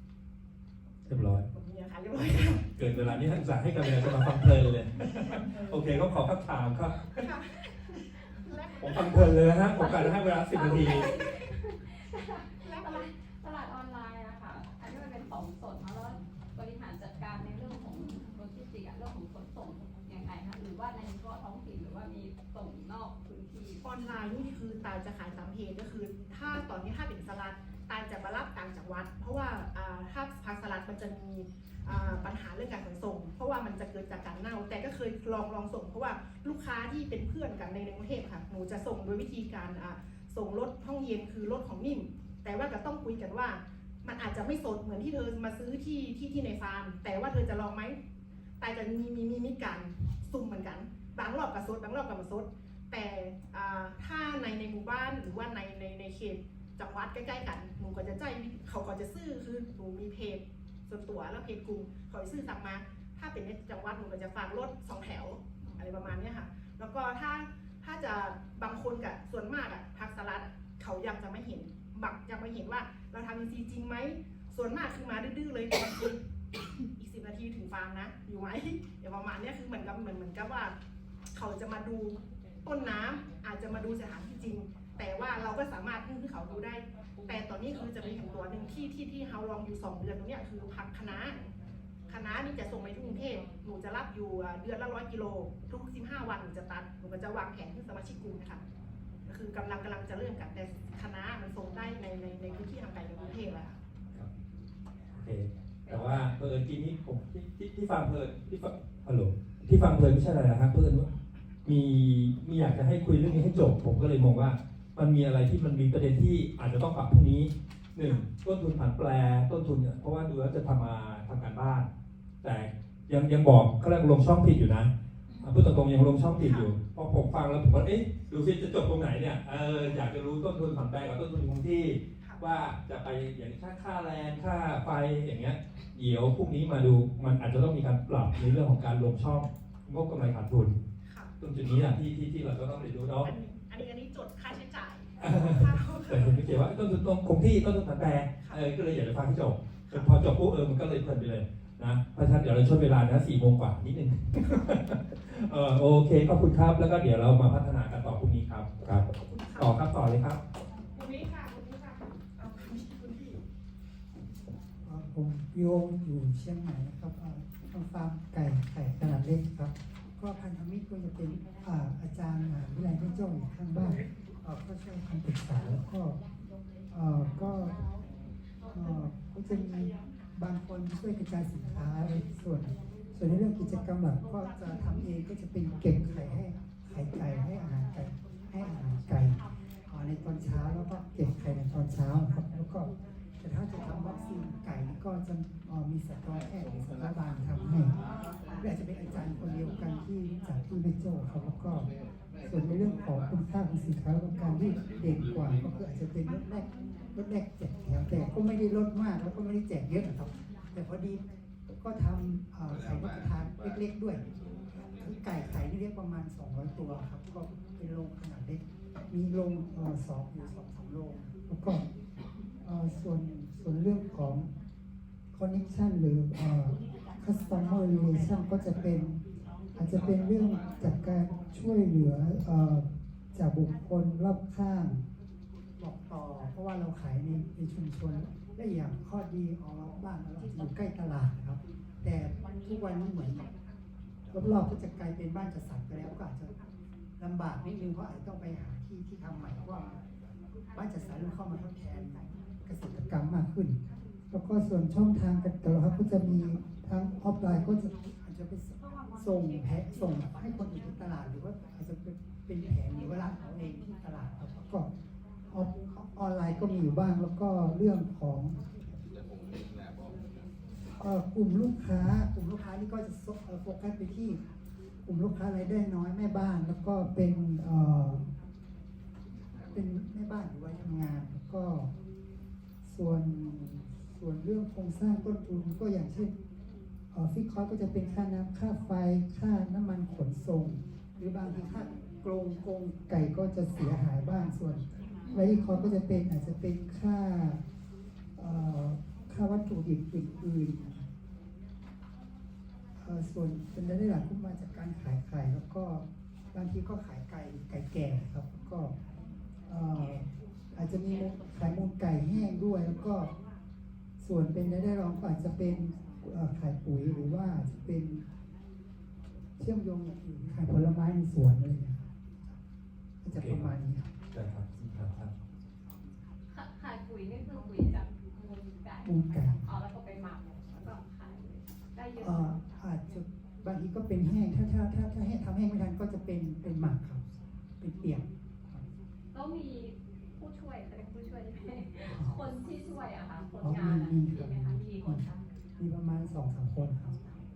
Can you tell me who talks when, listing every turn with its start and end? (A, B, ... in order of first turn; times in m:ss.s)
0:01.1-0:01.5 A
0:01.3-0:03.2 B
0:02.5-0:07.3 A
0:05.5-0:06.0 B
0:07.2-0:09.4 B
0:08.8-0:11.1 A
0:09.7-0:23.8 C
0:12.6-0:13.1 B
0:23.8-0:48.0 B
0:48.6-1:16.2 B
1:17.0-1:20.7 B
1:21.3-1:31.4 B
1:32.1-1:38.6 B
1:39.3-1:43.8 B
1:45.1-1:51.1 A
1:45.9-1:46.2 C
1:51.6-2:01.9 A
2:02.4-2:20.8 A
2:05.3-2:05.6 C
2:06.4-2:06.7 B
2:21.1-2:21.3 B
2:21.4-2:23.3 A
2:23.2-2:26.6 B
2:25.2-2:40.4 A
2:29.9-2:30.2 B
2:34.4-2:34.7 B
2:38.9-2:39.8 B
2:40.9-2:43.4 B
2:44.8-2:56.2 D
2:56.9-2:57.8 D
2:58.7-3:12.9 D
3:13.4-3:18.0 D
3:18.6-3:21.9 D
3:22.4-3:31.2 D
3:31.8-3:34.2 D
3:34.9-3:41.9 D
3:42.6-3:44.5 D
3:45.3-3:49.2 D
3:49.8-3:55.0 D
3:55.8-4:03.5 D
4:04.3-4:06.5 D
4:07.2-4:09.9 D
4:10.8-4:13.8 D
4:14.3-4:24.9 D
4:25.5-4:28.7 D
4:31.0-4:34.4 D
4:35.0-4:38.2 D
4:39.7-4:41.9 D
4:42.8-4:46.4 D
4:47.1-4:57.6 D
4:55.2-4:55.9 C
4:58.4-5:01.1 D
5:03.0-5:08.9 D
5:09.7-5:13.3 D
5:14.2-5:18.2 D
5:19.6-5:22.1 D
5:23.2-5:24.1 D
5:23.3-5:23.7 A
5:24.3-5:25.3 A
5:26.5-5:32.6 C
5:29.0-5:29.8 D
5:32.2-5:37.2 D
5:37.8-5:38.9 D
5:39.3-5:45.5 C
5:42.0-5:42.4 D
5:43.6-5:45.3 D
5:45.8-5:47.2 D